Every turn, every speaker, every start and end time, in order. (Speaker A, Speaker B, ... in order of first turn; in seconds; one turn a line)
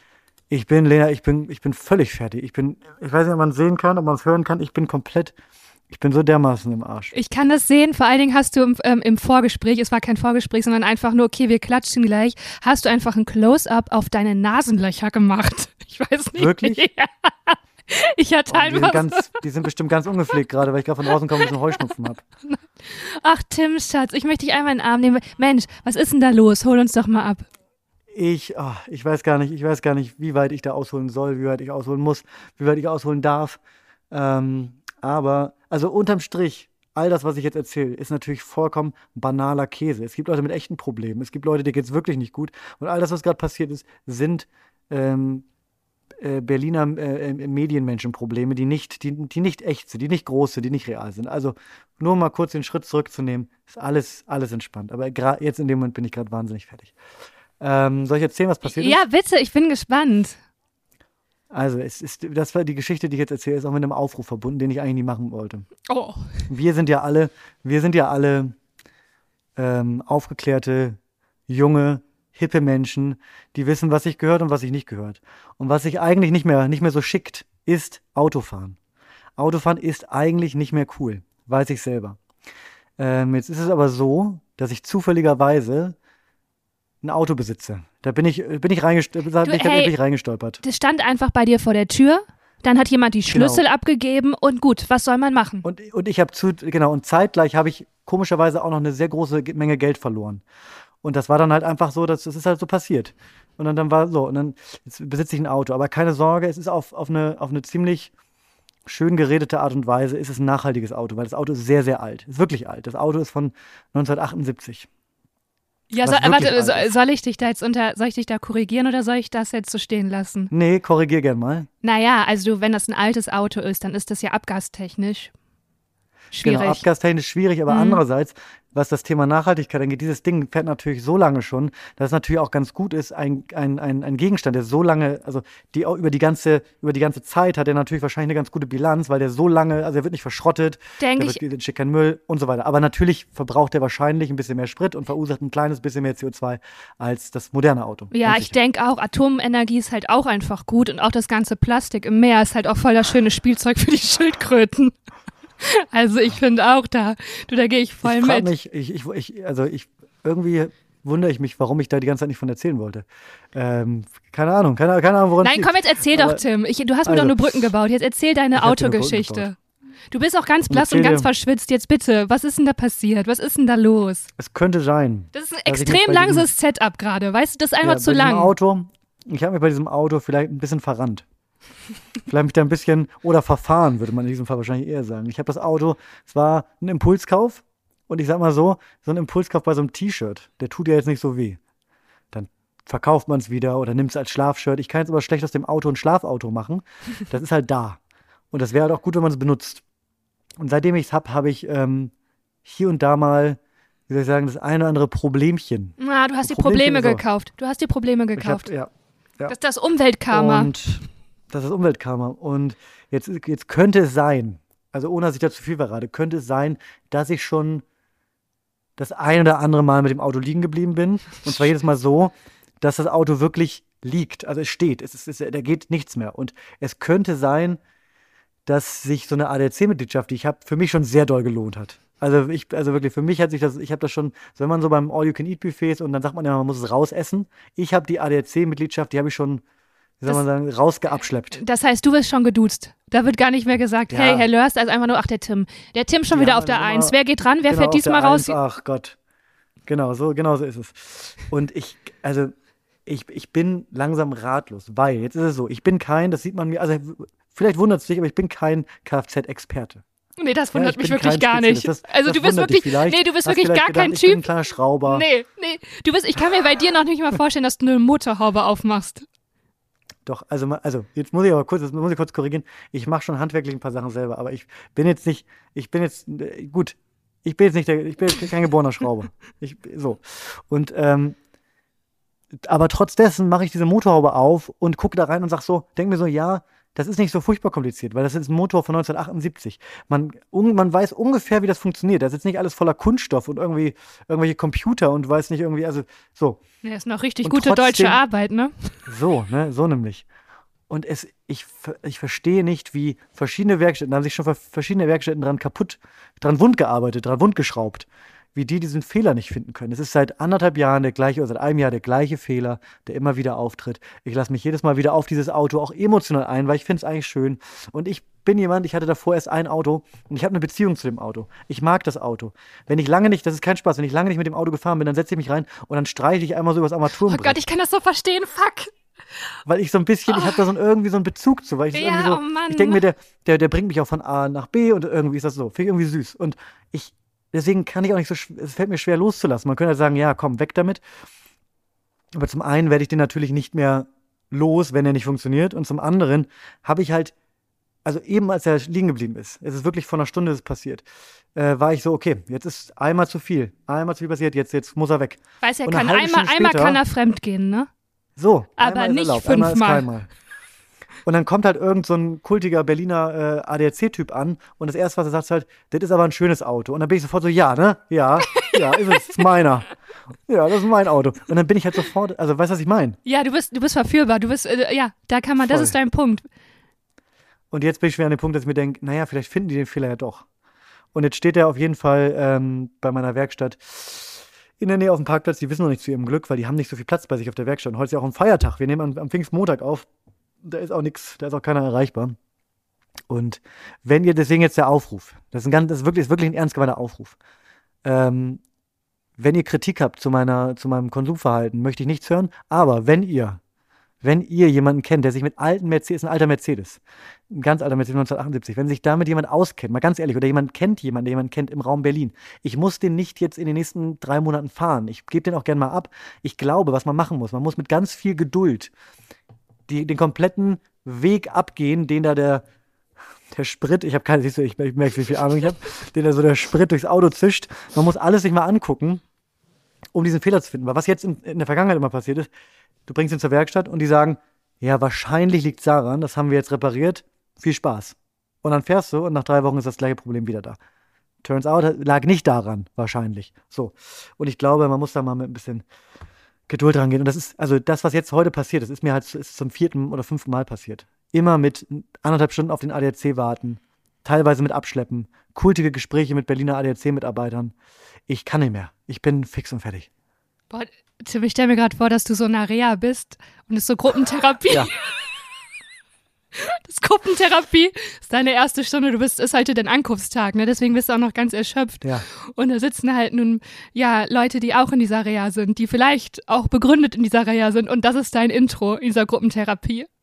Speaker A: 0.5-5.3
Speaker A: 5.9-7.1
Speaker B: 7.1-19.2
Speaker A: 16.4-16.8
Speaker A: 18.5-22.2
Speaker B: 22.4-27.4
Speaker A: 28.1-33.6
Speaker A: 34.1-45.4
Speaker A: 46.2-56.9
Speaker A: 57.6-59.0
Speaker B: 58.6-60.4
Speaker A: 61.5-65.7
Speaker B: 65.8-66.4
Speaker A: 66.5-68.5
Speaker A: 69.5-78.8
Speaker A: 79.4-82.2
Speaker A: 83.0-86.0
Speaker A: 87.0-90.6
Speaker B: 89.4-89.9
Speaker B: 90.6-95.6
Speaker A: 93.3-93.6
Speaker A: 95.6-100.4
Speaker A: 101.0-108.1
Speaker A: 108.8-114.9
Speaker B: 115.9-120.5
Speaker A: 116.0-116.9
Speaker A: 120.5-121.7
Speaker B: 121.8-125.3
Speaker B: 126.3-126.8
Speaker A: 126.4-148.5
Speaker B: 127.7-128.0
Speaker B: 141.0-141.4
Speaker B: 148.1-154.9
Speaker B: 155.6-158.5
Speaker A: 158.0-166.4
Speaker B: 165.4-169.5
Speaker A: 167.0-167.5
Speaker A: 168.6-169.5
Speaker B: 170.1-174.3
Speaker A: 170.7-171.3
Speaker A: 174.4-176.5
Speaker B: 175.3-178.5
Speaker A: 177.8-181.2
Speaker A: 182.3-191.6
Speaker A: 192.3-198.0
Speaker A: 198.5-199.8
Speaker A: 200.6-202.1
Speaker A: 202.6-207.2
Speaker B: 206.0-208.7
Speaker A: 208.3-209.5
Speaker B: 209.5-210.7
Speaker A: 210.3-217.8
Speaker A: 219.0-227.8
Speaker A: 228.7-239.6
Speaker A: 240.2-241.6
Speaker B: 241.5-248.6
Speaker A: 244.1-244.5
Speaker A: 246.3-249.2
Speaker A: 249.9-252.5
Speaker A: 253.1-260.0
Speaker B: 260.4-264.4
Speaker A: 260.7-265.3
Speaker B: 265.1-269.3
Speaker A: 270.2-281.4
Speaker A: 282.6-296.6
Speaker B: 296.8-299.1
Speaker A: 297.4-298.2
Speaker A: 299.1-300.2
Speaker A: 300.9-327.6
Speaker B: 327.1-328.9
Speaker A: 329.6-341.0
Speaker B: 330.3-330.6
Speaker B: 331.9-333.0
Speaker A: 342.3-347.3
Speaker A: 348.0-357.0
Speaker B: 355.6-357.9
Speaker A: 358.4-360.3
Speaker B: 358.8-360.1
Speaker A: 361.2-369.9
Speaker B: 368.5-369.4
Speaker A: 370.5-373.2
Speaker B: 373.2-376.5
Speaker A: 375.6-375.9
Speaker A: 377.7-380.4
Speaker A: 381.1-390.1
Speaker A: 390.6-392.4
Speaker A: 393.3-397.4
Speaker A: 398.0-398.6
Speaker A: 399.4-403.6
Speaker A: 404.2-418.9
Speaker A: 419.9-422.6
Speaker A: 423.5-429.2
Speaker A: 430.1-432.5
Speaker A: 433.1-440.8
Speaker A: 441.4-445.8
Speaker A: 446.7-457.7
Speaker A: 458.3-460.1
Speaker B: 460.7-465.4
Speaker B: 466.5-480.1